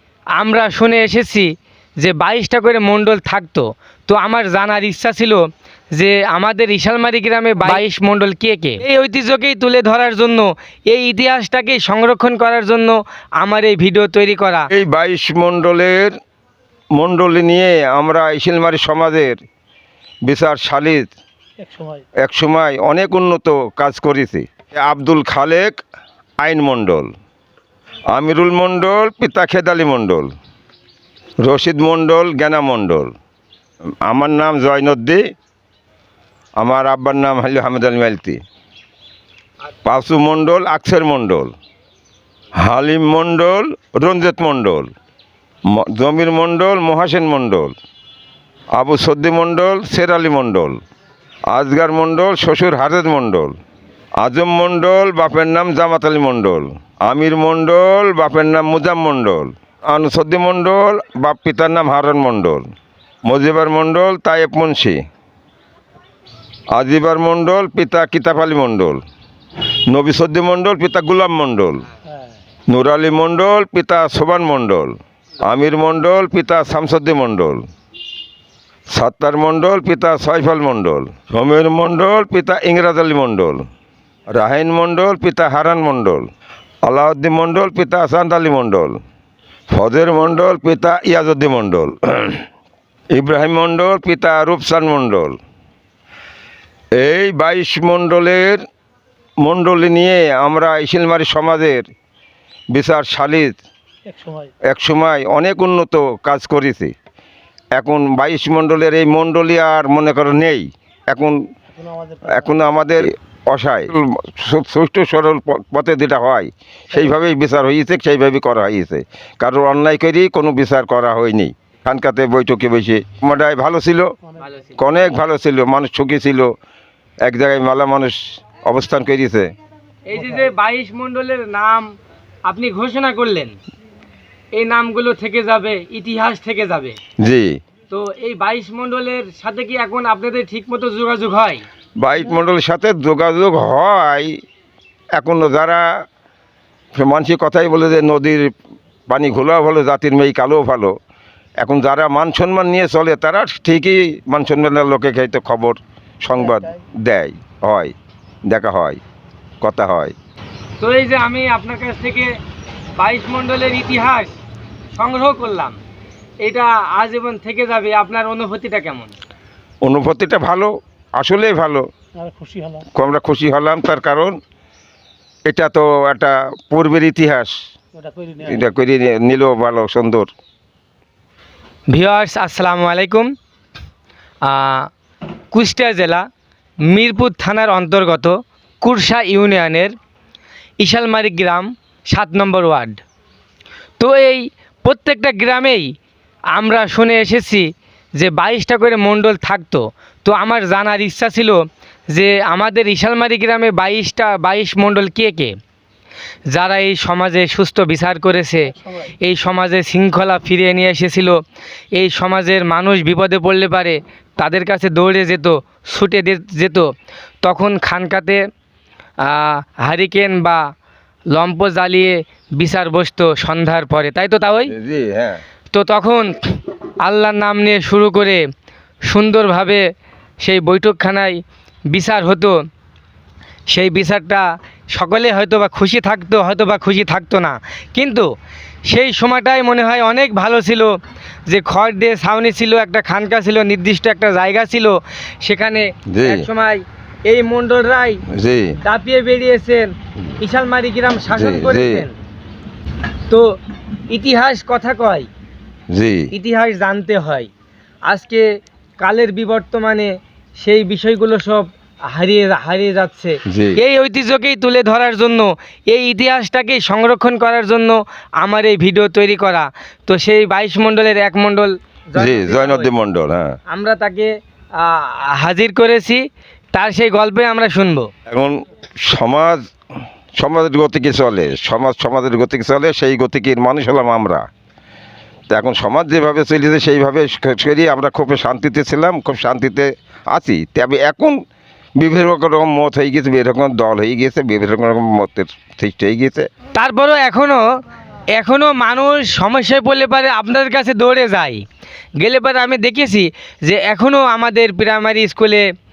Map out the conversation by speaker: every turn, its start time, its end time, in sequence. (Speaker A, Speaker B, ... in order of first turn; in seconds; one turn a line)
Speaker A: 0.4-1.5
Speaker A: 2.0-5.4
Speaker A: 5.9-14.7
Speaker B: 14.7-16.1
Speaker B: 16.9-19.4
Speaker B: 20.2-21.1
Speaker C: 21.6-22.0
Speaker B: 22.2-25.7
Speaker B: 26.4-27.1
Speaker B: 28.1-30.3
Speaker B: 31.4-33.1
Speaker B: 34.0-35.2
Speaker B: 36.6-38.4
Speaker B: 39.8-41.5
Speaker B: 42.6-44.9
Speaker B: 45.7-47.7
Speaker B: 48.7-50.8
Speaker B: 51.5-53.5
Speaker B: 54.2-62.7
Speaker B: 63.2-65.0
Speaker B: 66.7-69.0
Speaker B: 69.9-71.8
Speaker B: 72.7-77.7
Speaker B: 78.9-83.7
Speaker B: 84.3-86.3
Speaker B: 86.8-89.0
Speaker B: 89.7-92.4
Speaker B: 93.1-95.4
Speaker B: 97.0-98.6
Speaker B: 99.4-101.9
Speaker B: 102.7-103.5
Speaker C: 104.1-104.5
Speaker B: 104.7-106.9
Speaker B: 107.8-111.4
Speaker C: 111.8-112.4
Speaker B: 112.2-124.1
Speaker A: 124.4-124.9
Speaker B: 124.8-126.5
Speaker B: 127.2-129.5
Speaker A: 130.1-131.9
Speaker A: 132.4-133.6
Speaker A: 134.5-137.0
Speaker B: 137.2-137.6
Speaker A: 137.9-141.6
Speaker B: 142.0-144.4
Speaker B: 145.2-145.9
Speaker B: 146.9-148.5
Speaker B: 149.1-150.9
Speaker B: 151.6-157.9
Speaker B: 158.5-159.0
Speaker B: 159.6-160.1
Speaker A: 160.8-162.3
Speaker A: 163.0-164.4
Speaker A: 164.9-165.8
Speaker A: 166.4-169.1
Speaker B: 169.8-171.9
Speaker C: 172.2-172.8
Speaker B: 172.9-174.4
Speaker B: 175.5-177.6
Speaker C: 178.0-178.6
Speaker B: 178.4-180.3
Speaker A: 181.9-183.3
Speaker A: 184.4-184.9
Speaker A: 185.5-186.2
Speaker A: 186.8-189.9
Speaker A: 190.8-193.0
Speaker A: 194.0-195.9
Speaker A: 196.5-201.6
Speaker A: 202.1-205.5
Speaker A: 206.5-211.4
Speaker A: 211.9-216.9
Speaker A: 217.4-218.4
Speaker A: 219.2-220.6
Speaker A: 221.3-224.7
Speaker B: 224.7-225.4
Speaker A: 225.7-228.4
Speaker A: 229.1-229.8
Speaker A: 230.4-231.4
Speaker A: 231.9-232.6
Speaker A: 233.7-238.3
Speaker A: 238.9-240.9
Speaker A: 241.5-248.2
Speaker B: 246.1-246.5
Speaker B: 248.3-248.8
Speaker A: 248.8-252.2
Speaker B: 251.3-252.1
Speaker A: 254.1-255.3
Speaker B: 255.9-256.3
Speaker A: 256.3-257.5
Speaker A: 258.1-258.4
Speaker A: 259.0-272.9
Speaker B: 263.5-263.8
Speaker B: 272.2-273.6
Speaker A: 273.7-278.1
Speaker B: 278.3-279.6
Speaker B: 280.4-284.4
Speaker B: 285.5-291.4
Speaker B: 292.0-296.5
Speaker A: 296.7-297.6
Speaker A: 298.3-301.6
Speaker A: 302.2-305.6